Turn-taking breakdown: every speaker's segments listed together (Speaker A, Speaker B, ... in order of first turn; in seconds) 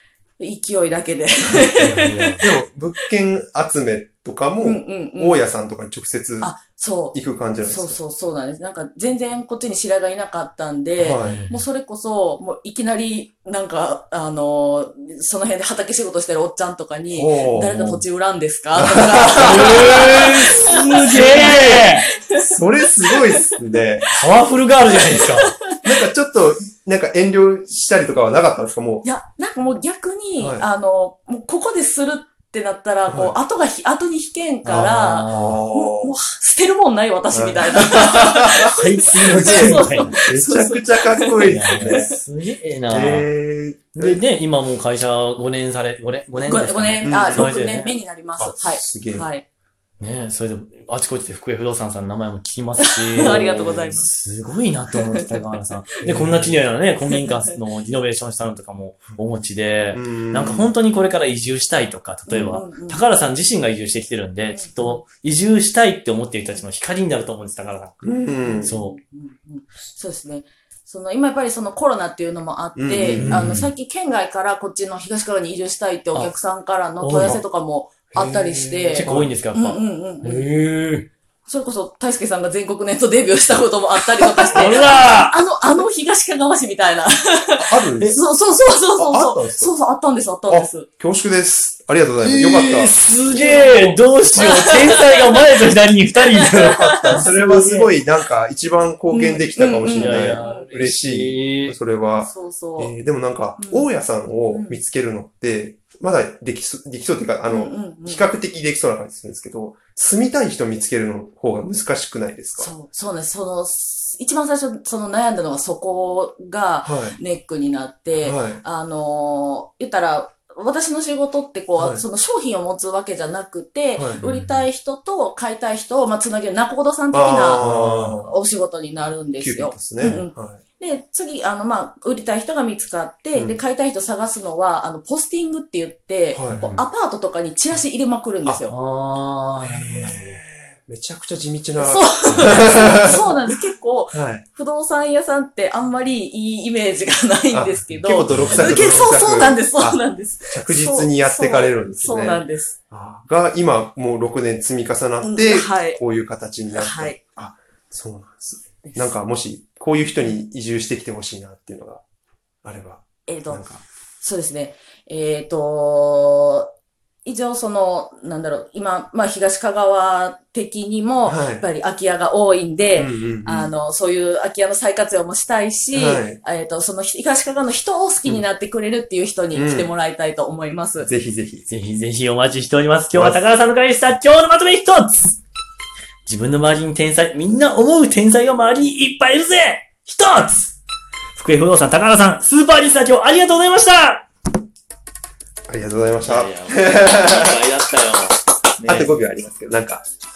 Speaker A: 0.4-2.4, 4.6-5.4, 6.4-22.5, 23.1-23.5, 24.9-25.8, 29.0-42.1, 46.4-49.5, 52.8-54.1, 55.0-55.4, 57.0-57.5, 62.3-63.0, 64.5-65.0, 68.4-80.5, 81.5-90.9, 93.3-93.8, 94.3-95.4, 96.3-97.2, 99.1-100.7, 102.2-102.9, 103.6-103.9, 104.5-104.8, 107.5-108.3, 112.6-138.7, 141.8-152.8, 155.2-156.0, 156.7-157.2, 158.8-159.1, 163.2-163.7, 164.2-166.7, 167.2-181.1
Speaker B: 1.5-1.8, 2.4-6.5, 7.1-8.0, 11.0-11.4, 17.1-18.0, 18.7-20.0, 21.1-21.7, 22.4-24.0, 25.8-29.1, 30.4-30.7, 33.1-33.3, 34.7-36.1, 37.3-38.7, 39.2-42.1, 42.9-44.2, 47.0-47.6, 48.4-49.3, 53.2-53.7, 56.0-56.6, 59.9-60.7, 68.0-68.8, 72.8-73.5, 78.1-79.3, 84.4-84.6, 87.6-88.2, 88.9-89.7, 90.5-94.8, 96.7-112.7, 116.8-117.2, 118.2-118.6, 121.8-122.0, 124.0-124.2, 127.1-128.3, 129.4-130.6, 133.3-133.6, 136.3-136.7, 139.6-143.5, 144.1-144.4, 147.5-162.0, 162.6-163.8, 171.2-171.7, 172.9-173.7, 175.9-176.4, 179.5-179.9, 181.0-181.7, 183.1-183.4, 195.7-197.6, 198.8-200.0
Speaker C: 1.8-2.5, 11.2-11.6, 19.4-22.1, 24.1-25.5, 34.6-35.6, 38.7-40.2, 41.4-43.3, 43.9-47.9, 50.0-68.0, 68.6-69.0, 73.1-73.7, 77.0-77.4, 78.9-81.1, 84.5-85.4, 92.2-97.9, 99.9-101.8, 124.2-124.6, 127.6-128.1, 136.5-136.8, 138.7-140.4, 142.2-142.6, 148.3-148.8, 181.7-185.4, 186.2-190.8, 191.3-194.2, 196.2-199.1